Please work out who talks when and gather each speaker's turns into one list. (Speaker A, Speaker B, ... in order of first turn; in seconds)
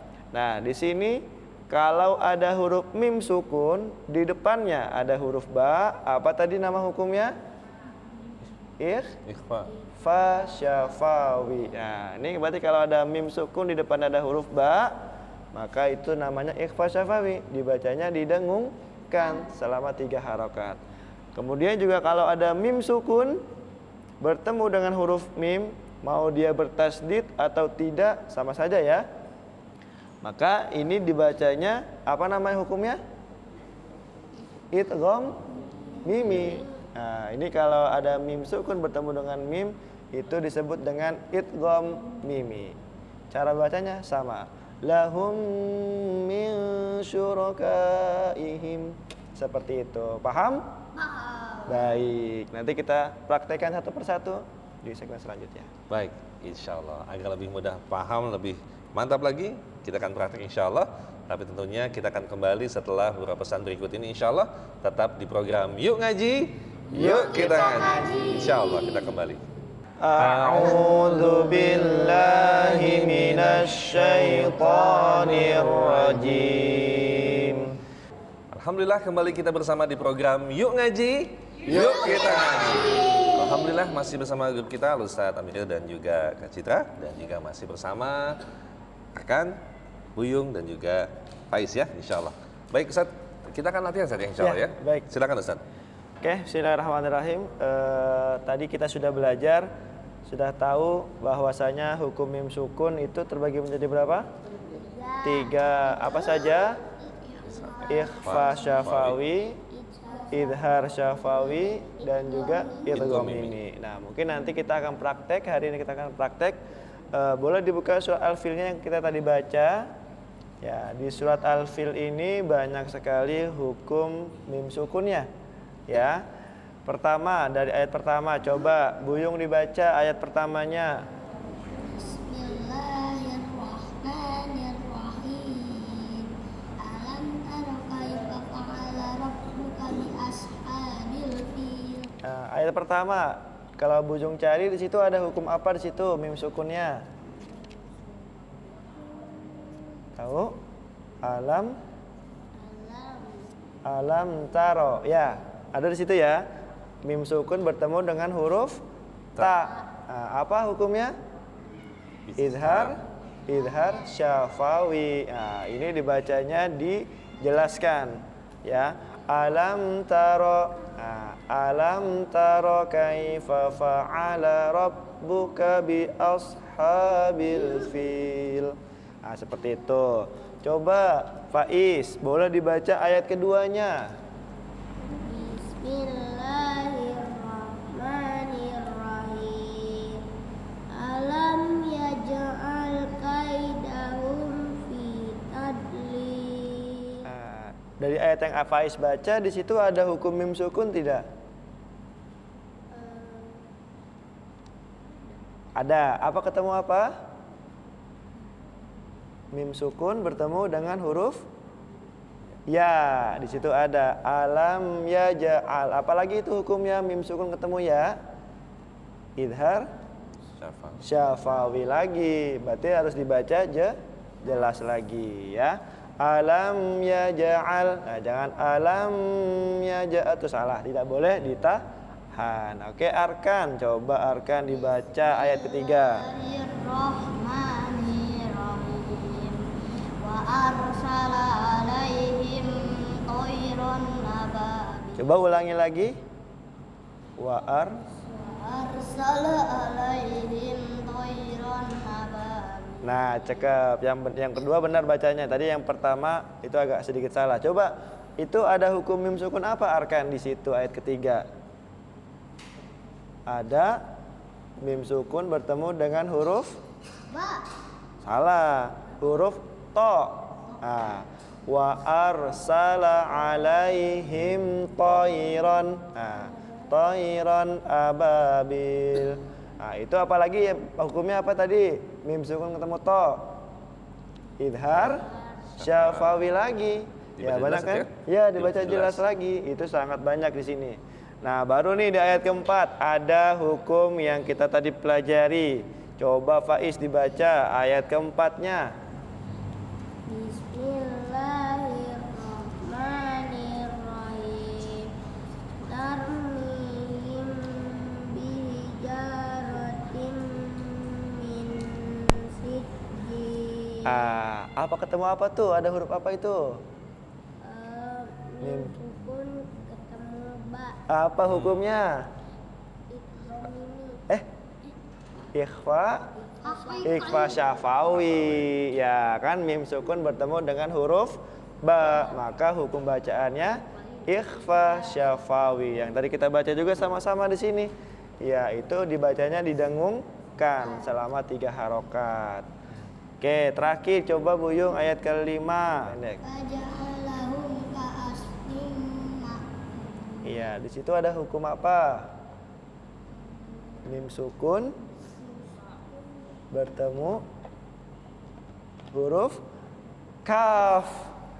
Speaker A: 0.3-7.3, 8.8-9.2, 10.0-14.9, 15.5-20.8, 21.3-23.4, 24.2-29.0, 30.2-33.0, 34.7-35.5, 36.0-42.8, 43.3-50.6, 51.6-55.7, 66.9-68.1, 70.0-77.7, 81.7-82.2, 94.4-95.1, 96.2-99.7, 100.2-104.3, 105.2-106.8, 107.9-109.6, 110.3-116.6, 117.1-119.9, 120.6-125.3, 125.9-126.2, 126.8-131.0, 142.2-147.0, 150.2-150.6, 151.2-151.8, 153.8-156.4, 157.0-158.8, 159.4-161.1, 162.4-184.1, 197.2-201.2, 205.8-207.2, 209.5-211.4, 212.7-218.2, 219.4-219.9, 221.0-236.2, 245.2-246.2, 247.4-248.0, 253.0-261.4, 263.5-264.0, 264.8-266.8, 268.2-283.5, 284.6-298.9, 314.1-316.8, 318.6-318.9, 321.1-322.2, 325.5-326.3, 327.0-342.7, 343.4-346.4, 350.4-352.3, 354.0-354.9, 356.7-357.4, 359.1-359.6, 360.4-361.3
Speaker B: 9.2-9.7, 55.9-69.4, 70.2-70.6, 78.5-88.4, 89.1-89.6, 90.2-95.6, 107.5-109.2, 112.9-113.5, 162.3-162.9, 220.6-221.0, 285.8-286.4, 287.4-289.2, 321.4-321.8
Speaker C: 50.9-51.9, 66.9-69.0, 82.7-83.4, 104.7-108.9, 109.7-113.0, 131.9-142.1, 152.5-153.5, 185.1-190.2, 190.9-197.2, 202.9-203.7, 235.2-245.3, 248.2-253.7, 267.3-267.7, 300.2-305.1, 305.8-314.2, 317.6-321.1, 323.1-324.2, 326.6-328.0, 346.4-350.7